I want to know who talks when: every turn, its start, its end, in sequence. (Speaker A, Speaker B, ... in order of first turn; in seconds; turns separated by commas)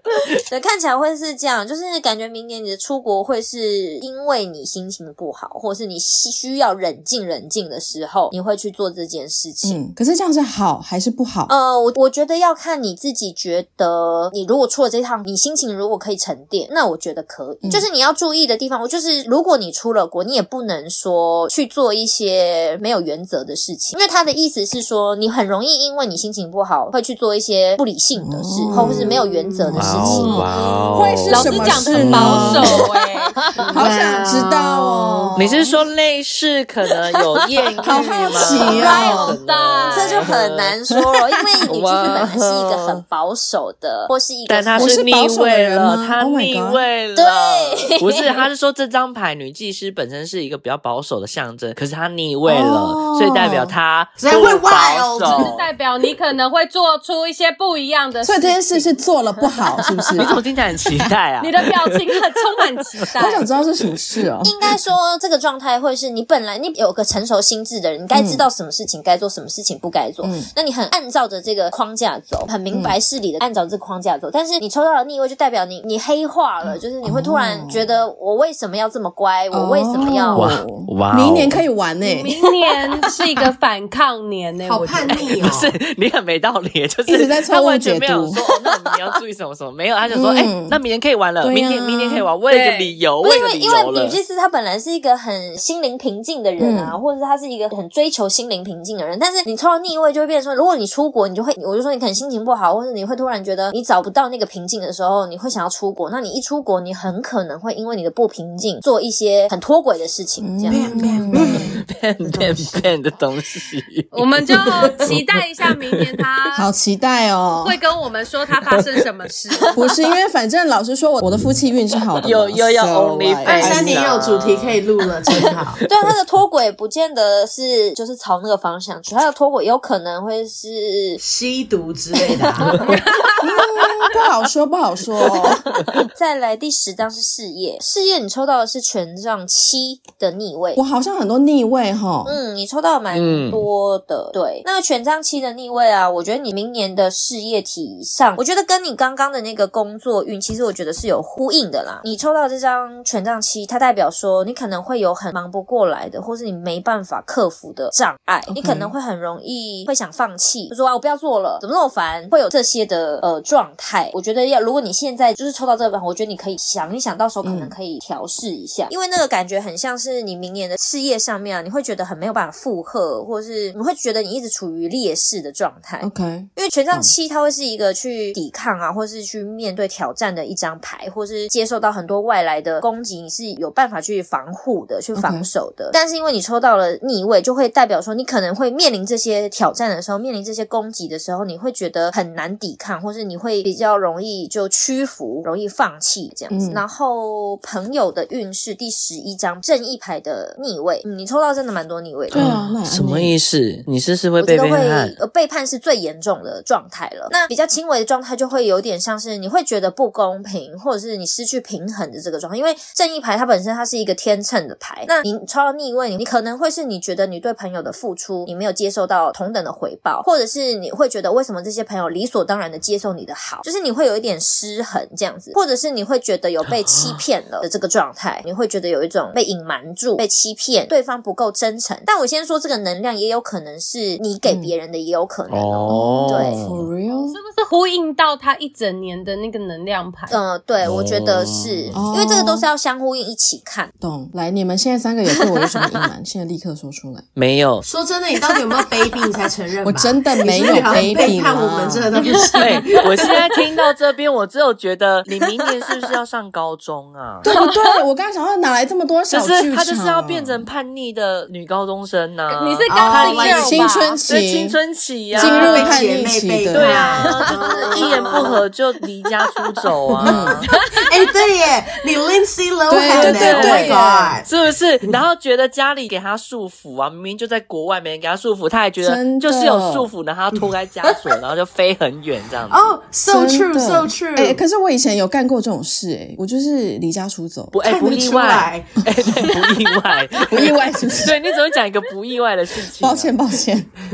Speaker A: 0.5-9.8, Speaker B: 9.6-11.5, Speaker A: 11.5-30.7, Speaker B: 28.2-32.9, Speaker C: 29.7-32.9, Speaker D: 31.3-34.5, Speaker A: 33.4-34.5, Speaker B: 33.7-35.7, Speaker C: 33.8-34.5, Speaker C: 35.4-40.7, Speaker B: 37.8-39.4, Speaker A: 37.9-39.3, Speaker D: 38.5-40.3, Speaker A: 39.9-45.0, Speaker C: 41.7-43.0, Speaker C: 44.5-55.6, Speaker B: 44.8-46.8, Speaker A: 47.1-48.5, Speaker B: 52.5-53.7, Speaker E: 54.2-55.5, Speaker D: 55.3-58.9, Speaker B: 58.2-60.4, Speaker C: 60.2-62.2, Speaker D: 61.4-63.5, Speaker B: 63.1-64.5, Speaker A: 64.4-80.5, Speaker B: 68.1-68.4, Speaker B: 70.2-70.5, Speaker B: 72.7-73.0, Speaker B: 77.0-77.9, Speaker B: 79.5-82.3, Speaker C: 80.3-81.6, Speaker D: 82.0-85.4, Speaker E: 84.6-85.7, Speaker C: 85.4-94.2, Speaker B: 87.0-88.4, Speaker B: 90.1-90.8, Speaker B: 91.4-92.3, Speaker D: 92.5-92.9, Speaker A: 93.2-110.8, Speaker B: 96.6-97.0, Speaker B: 110.4-111.8, Speaker E: 110.7-112.8, Speaker C: 111.3-116.2, Speaker D: 114.1-116.7, Speaker B: 116.5-117.8, Speaker D: 117.6-119.8, Speaker C: 118.6-119.0, Speaker B: 119.7-124.0, Speaker C: 122.2-124.8, Speaker E: 123.5-125.8, Speaker A: 125.8-131.2, Speaker E: 131.2-132.8, Speaker D: 132.8-133.6, Speaker B: 133.4-135.6, Speaker A: 135.8-140.8, Speaker B: 140.7-142.4, Speaker A: 142.2-202.5, Speaker C: 143.1-143.6, Speaker B: 158.5-158.9, Speaker B: 167.4-167.7, Speaker B: 176.0-177.1, Speaker B: 185.1-185.5, Speaker B: 196.5-196.8, Speaker B: 202.3-203.3, Speaker C: 202.3-205.2, Speaker A: 204.4-236.6, Speaker B: 234.4-234.7, Speaker C: 235.5-236.9, Speaker B: 235.9-237.4, Speaker D: 237.1-240.4, Speaker A: 240.3-243.9, Speaker C: 240.8-241.9, Speaker B: 241.9-242.7, Speaker B: 244.0-247.2, Speaker C: 247.4-247.8, Speaker E: 247.8-252.9, Speaker B: 249.8-252.1, Speaker D: 252.1-253.9, Speaker C: 252.6-257.4, Speaker B: 257.4-260.7, Speaker D: 257.4-258.0, Speaker C: 259.3-266.0, Speaker D: 262.5-264.2, Speaker E: 262.9-263.9, Speaker B: 263.5-264.8, Speaker B: 265.3-267.1, Speaker E: 265.3-268.6, Speaker D: 265.4-265.9, Speaker C: 266.7-270.7, Speaker D: 266.8-268.4, Speaker B: 270.2-270.6, Speaker D: 270.7-271.1, Speaker E: 271.0-274.5, Speaker B: 272.9-274.4, Speaker C: 273.1-282.9, Speaker B: 279.0-280.1, Speaker E: 282.7-284.6, Speaker B: 283.2-287.8, Speaker C: 287.7-293.3, Speaker E: 287.9-289.5, Speaker B: 290.4-291.4, Speaker B: 293.0-293.9